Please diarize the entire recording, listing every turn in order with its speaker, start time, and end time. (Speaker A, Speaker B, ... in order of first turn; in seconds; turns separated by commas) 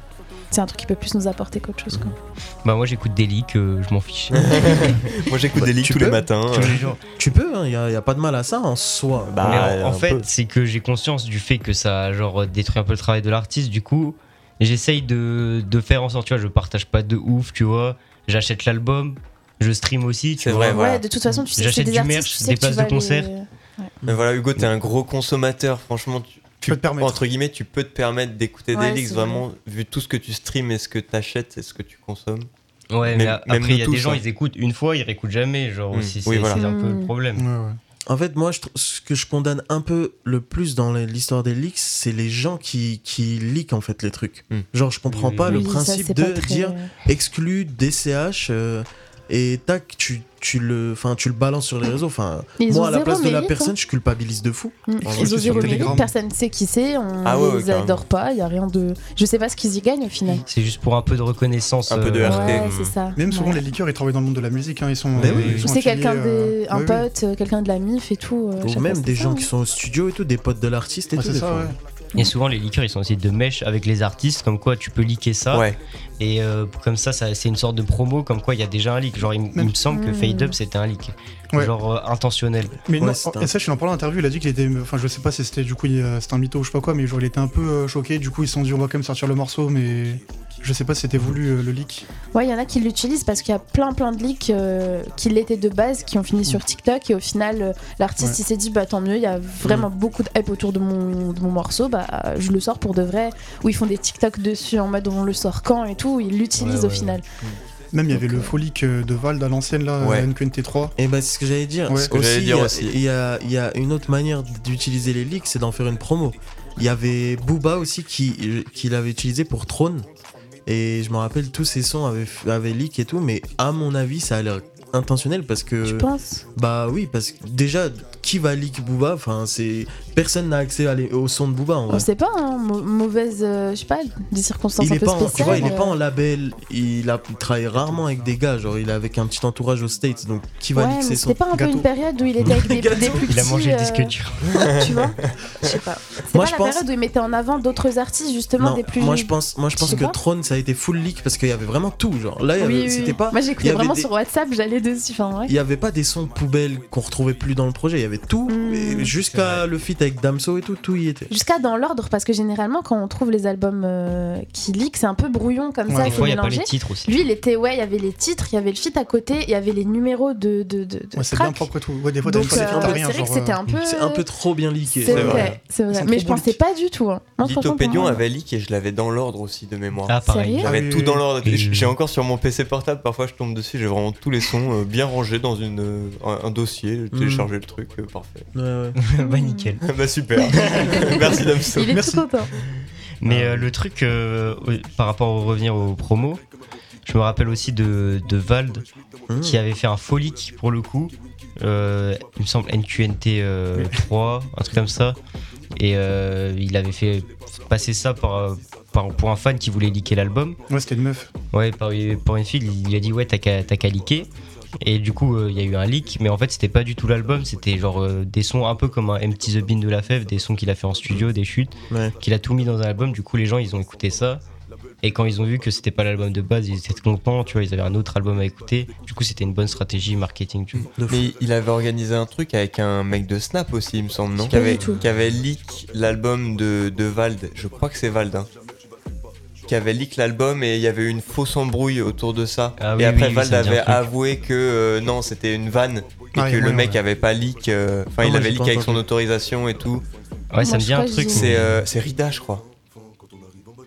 Speaker A: 0.5-2.1, Speaker B: 2.6-5.0, Speaker C: 4.4-6.8, Speaker D: 5.5-9.5, Speaker B: 6.5-7.0, Speaker C: 9.3-10.3, Speaker B: 9.4-20.8, Speaker C: 20.4-21.0, Speaker A: 20.7-23.9, Speaker B: 21.6-23.3, Speaker C: 24.1-32.5, Speaker E: 26.6-27.2, Speaker A: 28.7-29.4, Speaker B: 32.9-37.5, Speaker C: 33.1-34.2, Speaker C: 35.9-36.6, Speaker A: 36.5-37.1, Speaker E: 37.4-37.8, Speaker D: 38.1-56.0, Speaker B: 45.1-45.6, Speaker A: 45.5-46.9, Speaker A: 52.6-53.7, Speaker A: 54.9-60.4, Speaker E: 55.1-56.1, Speaker C: 57.2-58.0, Speaker B: 60.4-62.9, Speaker C: 61.9-62.7, Speaker A: 62.2-63.6, Speaker E: 63.1-67.0, Speaker D: 65.2-65.6, Speaker B: 65.2-65.7, Speaker A: 65.6-69.5, Speaker D: 68.6-71.7, Speaker E: 71.2-71.8, Speaker B: 72.2-75.7, Speaker C: 75.5-75.8, Speaker B: 76.2-82.8, Speaker A: 79.9-80.5, Speaker E: 82.8-92.0, Speaker D: 82.9-83.5, Speaker A: 92.3-107.2, Speaker B: 106.5-107.2, Speaker E: 107.9-110.9, Speaker D: 108.1-108.5, Speaker C: 110.0-110.3, Speaker D: 111.0-120.0, Speaker C: 112.1-113.0, Speaker D: 120.7-132.1, Speaker A: 125.8-126.4, Speaker A: 131.9-135.9, Speaker D: 134.8-141.4, Speaker E: 135.3-135.7, Speaker A: 140.7-144.1, Speaker E: 141.5-141.8, Speaker B: 142.4-144.7, Speaker D: 142.5-143.1, Speaker A: 144.7-150.2, Speaker D: 146.3-146.8, Speaker D: 148.6-154.1, Speaker A: 152.6-155.5, Speaker D: 155.4-161.3, Speaker A: 158.5-159.1, Speaker B: 159.2-159.7, Speaker A: 161.3-171.7, Speaker E: 165.9-166.3, Speaker B: 166.0-167.2, Speaker E: 171.2-173.6, Speaker A: 172.2-174.2, Speaker D: 172.4-173.1, Speaker D: 173.7-175.6, Speaker A: 174.9-178.2, Speaker C: 175.1-175.5, Speaker E: 175.9-176.6, Speaker C: 177.4-188.5, Speaker B: 180.1-180.7, Speaker A: 180.2-180.7, Speaker E: 180.6-181.2, Speaker B: 181.4-181.9, Speaker D: 187.1-187.5, Speaker D: 188.5-188.9, Speaker B: 189.0-189.8, Speaker A: 189.2-189.7, Speaker C: 189.8-192.2, Speaker A: 190.4-191.2, Speaker A: 191.7-192.5, Speaker E: 191.9-192.2, Speaker B: 193.2-196.4, Speaker D: 193.2-193.7, Speaker B: 197.1-198.8, Speaker D: 199.3-199.6, Speaker B: 199.4-205.2, Speaker B: 205.7-210.6, Speaker E: 210.7-211.3, Speaker B: 211.5-214.3, Speaker B: 214.8-224.4, Speaker D: 221.9-222.2, Speaker B: 225.0-230.9, Speaker C: 230.7-238.5, Speaker D: 230.9-231.3, Speaker B: 234.4-235.0, Speaker A: 234.5-235.0, Speaker C: 239.7-250.0, Speaker B: 242.8-244.0, Speaker E: 246.3-247.0, Speaker D: 248.2-249.0, Speaker B: 250.5-251.8, Speaker A: 250.6-251.5, Speaker C: 251.3-252.6